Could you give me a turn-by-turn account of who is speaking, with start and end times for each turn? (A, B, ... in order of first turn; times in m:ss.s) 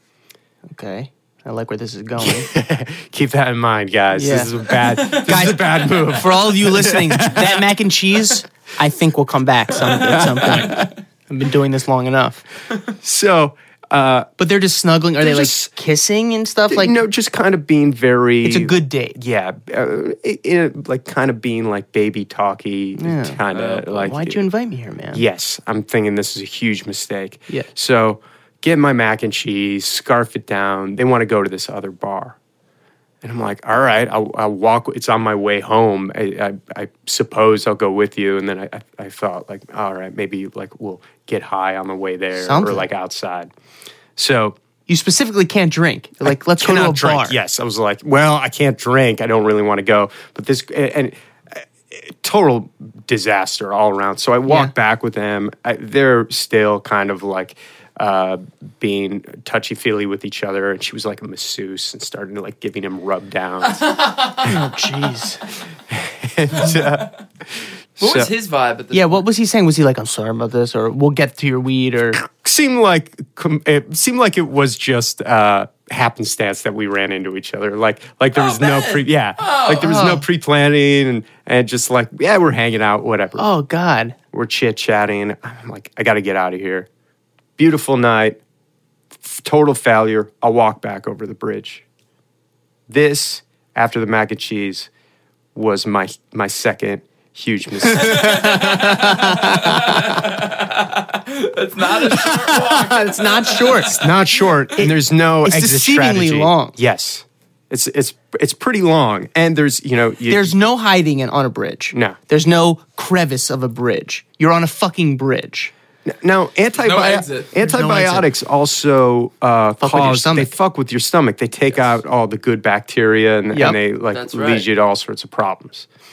0:00.7-0:02.5 A
0:02.2-0:07.6 B
0:04.1-0:04.5 A
0:05.1-0:12.4 A
0:10.0-0:10.6 B
0:13.0-0:14.3 B
0:14.4-0:17.0 A
0:15.2-0:15.7 B
0:16.7-0:24.4 B
0:18.4-0:19.2 A
0:23.0-0:25.2 A
0:23.5-0:23.8 C
0:25.1-0:32.4 B
0:33.2-0:43.5 B
0:42.4-0:42.8 A
0:44.2-0:44.6 B
0:44.9-0:47.4 A
0:46.2-1:04.6 B
0:54.5-0:54.7 A
1:03.8-1:04.5 C
1:04.4-1:05.4 A
1:05.9-1:07.1 B
1:06.6-1:07.1 C
1:08.0-1:08.3 B
1:08.0-1:09.2 C
1:08.9-1:12.2 A
1:12.2-1:23.4 B
1:18.3-1:20.0 C
1:19.8-1:20.2 A
1:23.4-1:24.2 A
1:24.3-1:26.9 B
1:27.6-1:28.4 B
1:29.2-1:31.8 B
1:32.9-1:34.9 B
1:35.5-1:38.8 B
1:37.9-1:40.2 A
1:38.0-1:44.1 C
1:42.0-1:44.0 A
1:43.9-1:50.5 B
1:44.8-1:46.7 A
1:50.3-1:55.7 A
1:51.9-1:52.2 B
1:56.0-2:05.9 B
1:56.8-1:57.5 C
1:57.6-1:58.2 A
1:59.8-2:00.5 A
2:03.5-2:03.8 A
2:04.1-2:04.7 C